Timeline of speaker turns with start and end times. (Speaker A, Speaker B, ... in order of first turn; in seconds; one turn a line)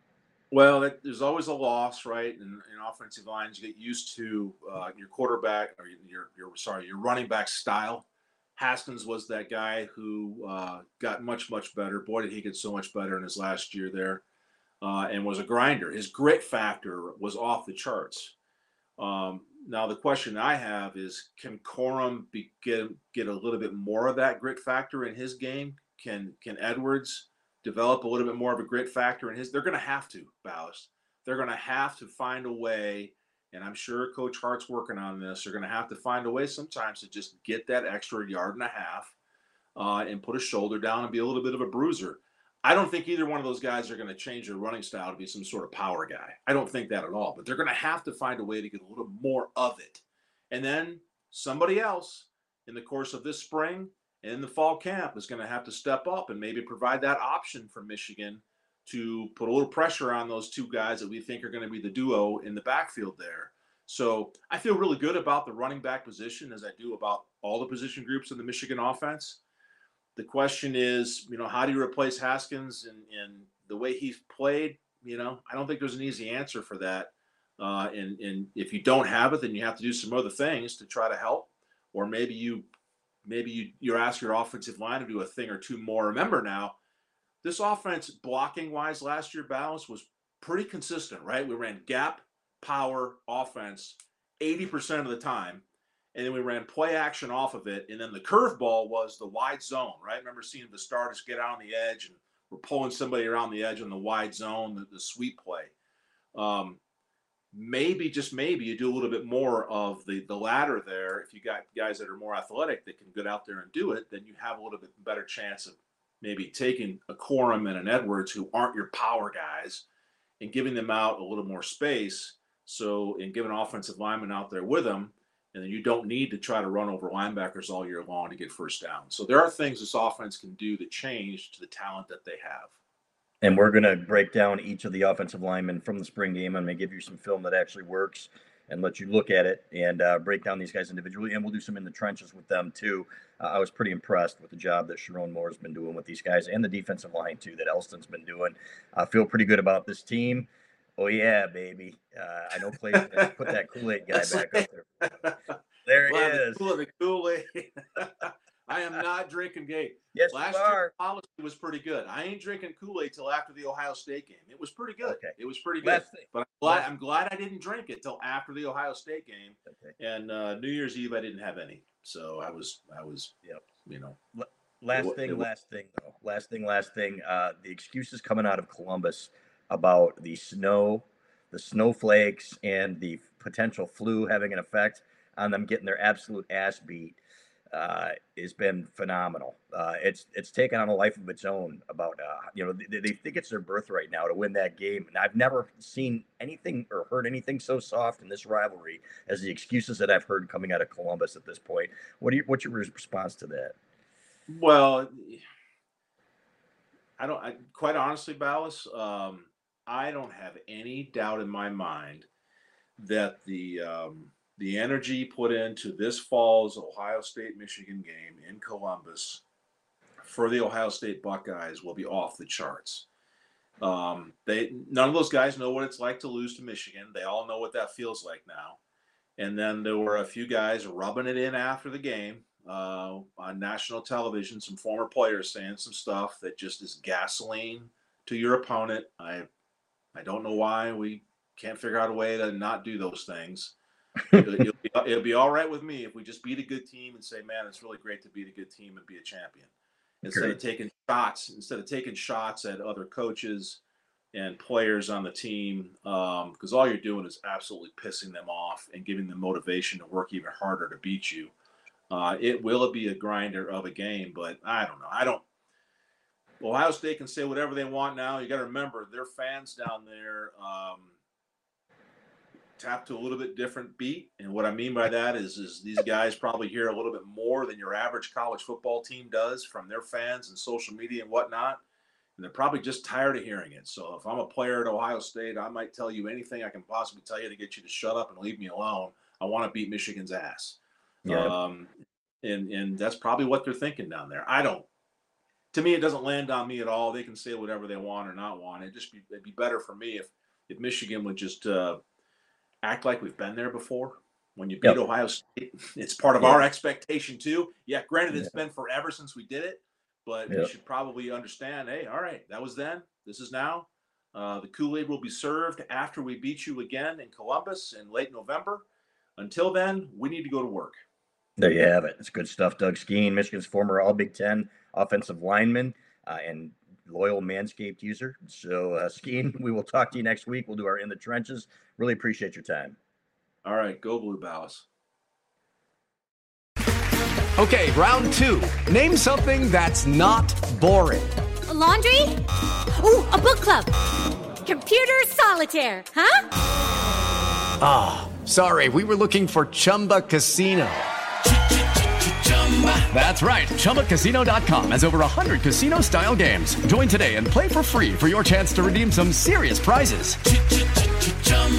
Speaker A: 0.5-14.2
Speaker A: 14.8-18.3
Speaker A: 19.0-39.1
Speaker A: 39.8-69.4
Speaker A: 70.2-82.7
Speaker A: 83.2-86.8
Speaker A: 87.4-105.7
Speaker A: 106.3-106.8
Speaker A: 107.5-119.8
Speaker A: 120.4-132.7
Speaker B: 133.4-150.5
Speaker B: 151.0-154.9
Speaker A: 152.7-153.3
Speaker A: 154.1-155.5
Speaker B: 155.9-156.7
Speaker A: 156.1-173.3
Speaker B: 160.1-160.9
Speaker B: 165.0-166.8
Speaker B: 169.7-169.9
Speaker A: 173.8-174.2
Speaker B: 174.3-187.2
Speaker A: 174.9-175.5
Speaker B: 187.7-203.8
Speaker A: 204.5-205.4
Speaker A: 207.2-212.3
Speaker A: 213.0-219.4
Speaker A: 220.2-223.1
Speaker A: 223.8-228.8
Speaker A: 229.4-239.5
Speaker A: 240.1-243.8
Speaker A: 244.3-249.7
Speaker A: 250.2-253.8
Speaker B: 250.2-250.6
Speaker A: 254.3-261.5
Speaker A: 262.1-265.4
Speaker A: 266.6-271.2
Speaker A: 272.8-281.8
Speaker A: 282.4-294.9
Speaker B: 291.3-291.6
Speaker A: 295.7-302.0
Speaker A: 302.8-318.9
Speaker A: 319.4-321.0
Speaker B: 321.6-333.0
Speaker A: 333.6-334.9
Speaker C: 337.6-341.4
Speaker D: 341.7-342.4
Speaker D: 343.0-343.9
Speaker D: 344.6-346.4
Speaker C: 347.8-351.1
Speaker C: 353.1-360.4